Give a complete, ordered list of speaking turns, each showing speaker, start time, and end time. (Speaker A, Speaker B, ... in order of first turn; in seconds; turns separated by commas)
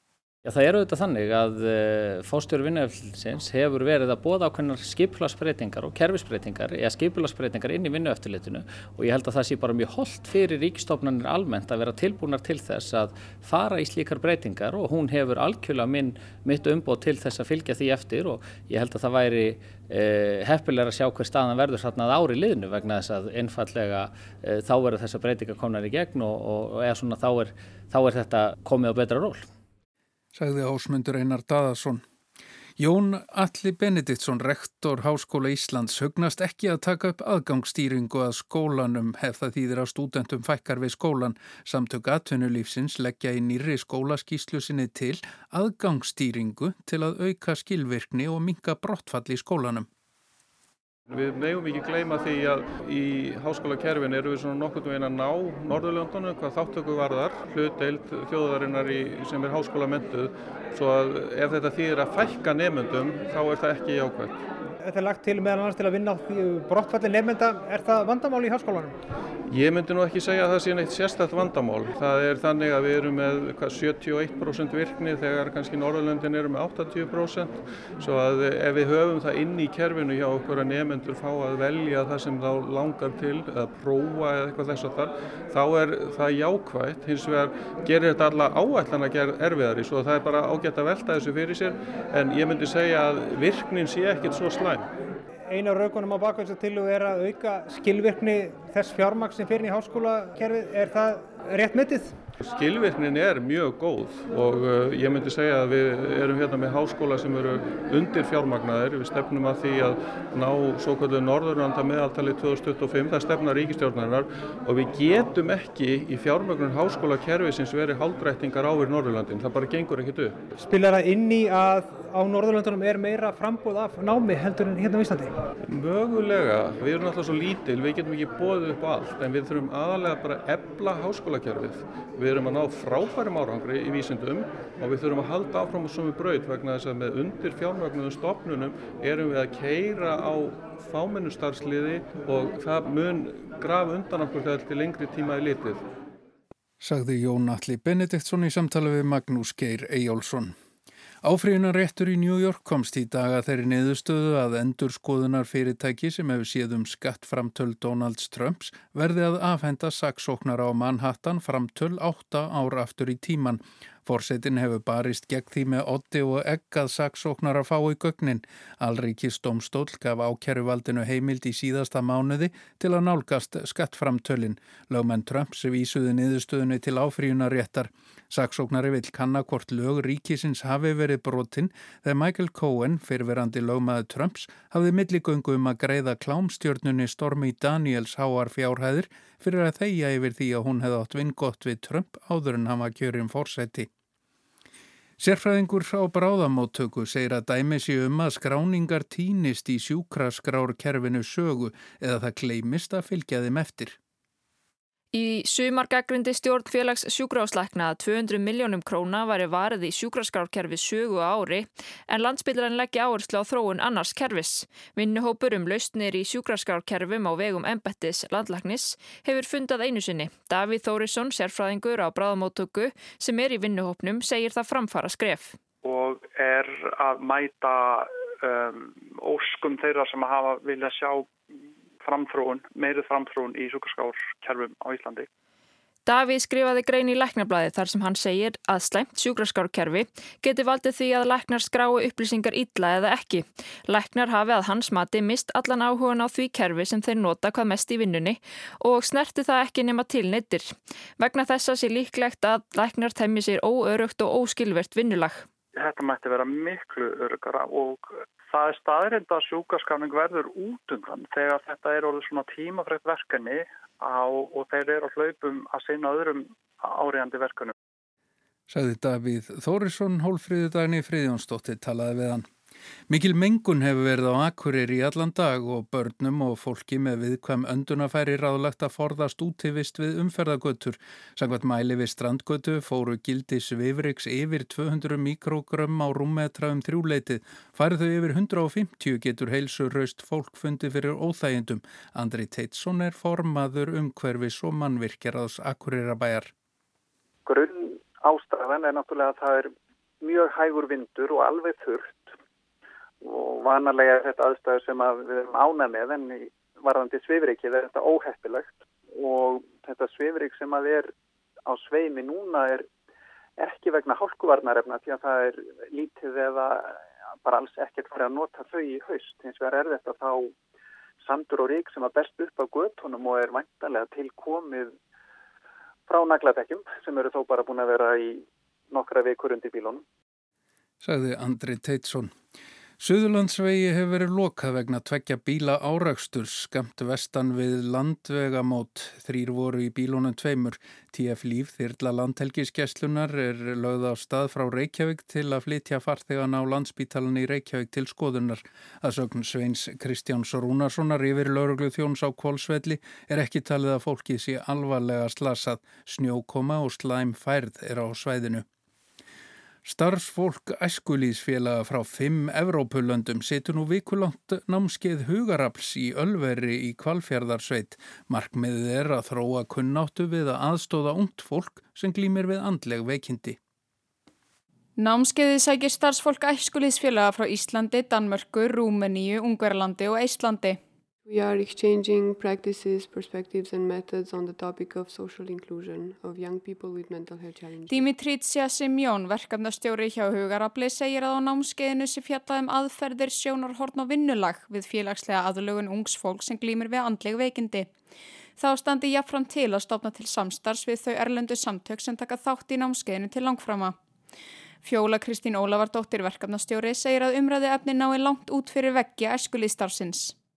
Speaker A: 0.5-29.5, Speaker B: 30.4-32.0, Speaker B: 32.8-49.9, Speaker C: 51.1-64.4, Speaker D: 64.8-69.0, Speaker C: 69.5-94.9, Speaker D: 95.5-102.2, Speaker C: 102.4-120.4, Speaker D: 120.6-125.3, Speaker C: 125.7-145.8, Speaker B: 146.8-150.5, Speaker B: 151.2-193.9, Speaker B: 195.2-204.0, Speaker E: 205.1-225.6, Speaker F: 225.8-231.3, Speaker F: 232.0-235.3, Speaker E: 236.1-255.5, Speaker F: 255.8-267.7, Speaker B: 268.7-272.5, Speaker B: 273.1-296.5, Speaker G: 297.5-302.2, Speaker G: 303.2-311.1, Speaker G: 311.7-312.9, Speaker G: 313.6-320.5, Speaker G: 321.2-324.9, Speaker G: 326.1-330.0, Speaker B: 331.0-332.3, Speaker B: 333.0-358.6, Speaker B: 359.9-373.6, Speaker H: 375.0-380.8, Speaker I: 381.3-388.1, Speaker H: 387.9-397.9, Speaker H: 398.6-404.0, Speaker H: 404.8-410.4